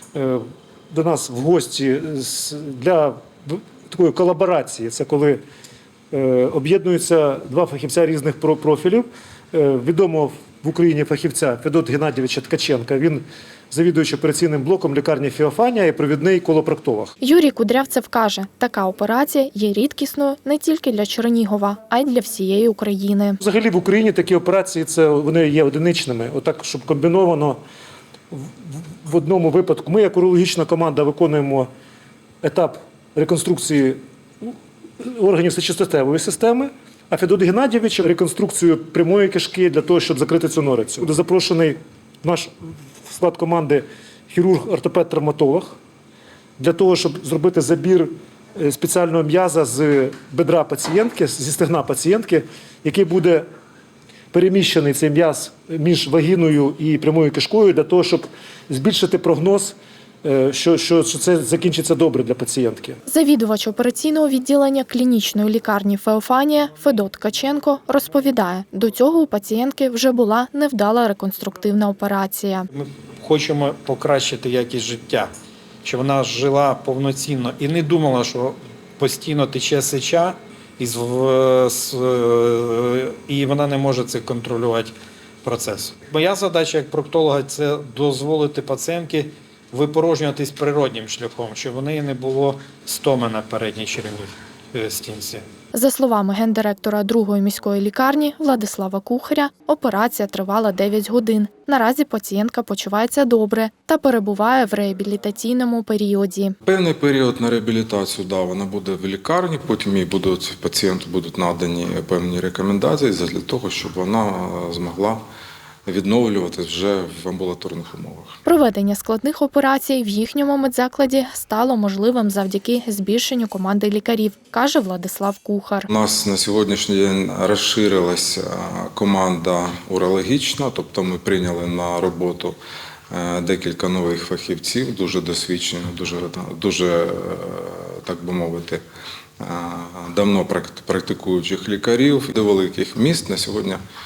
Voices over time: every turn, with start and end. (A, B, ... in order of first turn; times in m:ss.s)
0:00.1-0:05.4 A
0:06.1-0:17.1 A
0:17.2-0:23.4 B
0:23.4-0:27.6 A
0:28.3-0:31.7 A
0:32.4-0:45.8 A
0:46.6-0:53.4 A
0:54.3-1:03.0 A
1:03.1-1:12.7 B
1:12.7-1:15.3 C
1:15.8-1:35.4 C
1:35.7-1:46.6 B
1:46.6-1:55.2 D
1:55.8-1:58.4 D
1:58.4-2:05.9 B
2:05.9-2:12.6 D
2:13.1-2:18.8 D
2:19.4-2:23.8 D